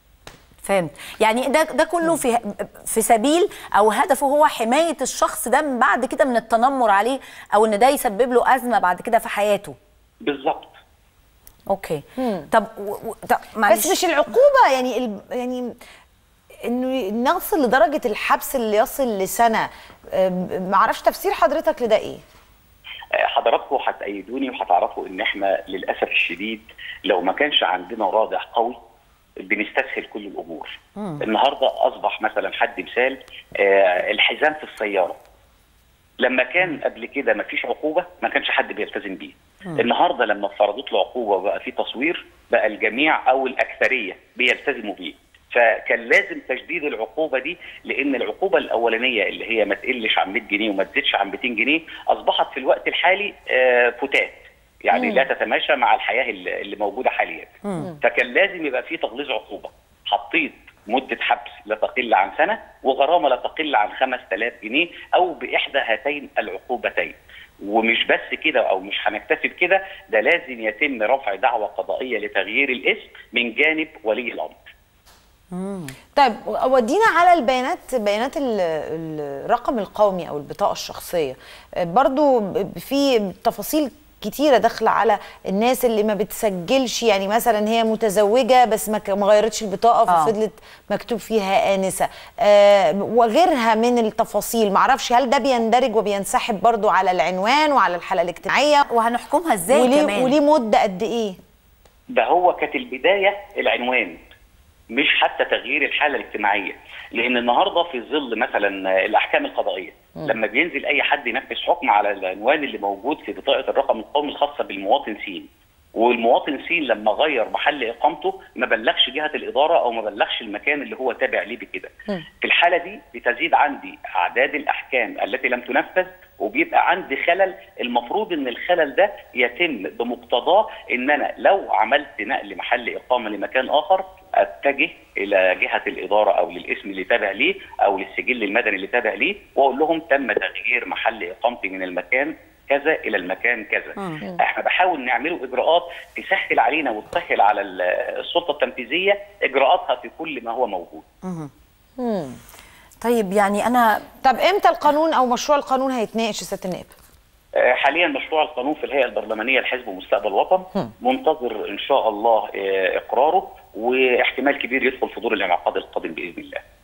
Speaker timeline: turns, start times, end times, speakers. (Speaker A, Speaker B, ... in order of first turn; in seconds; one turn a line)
Speaker A: 0.6-9.8
Speaker B: 10.2-10.8
Speaker A: 11.7-13.9
Speaker C: 12.2-12.5
Speaker C: 13.7-15.7
Speaker C: 16.6-22.2
Speaker B: 23.1-28.8
Speaker B: 29.4-35.2
Speaker A: 31.0-31.2
Speaker B: 36.2-74.6
Speaker C: 55.0-55.2
Speaker A: 57.6-57.9
Speaker A: 75.5-76.0
Speaker C: 76.2-98.9
Speaker A: 90.1-90.3
Speaker A: 98.9-100.4
Speaker C: 99.7-101.4
Speaker B: 102.1-104.2
Speaker B: 104.9-151.1
Speaker A: 151.2-151.5
Speaker C: 152.0-152.4
Speaker A: 153.0-154.1
Speaker C: 154.2-156.9
Speaker B: 157.6-166.6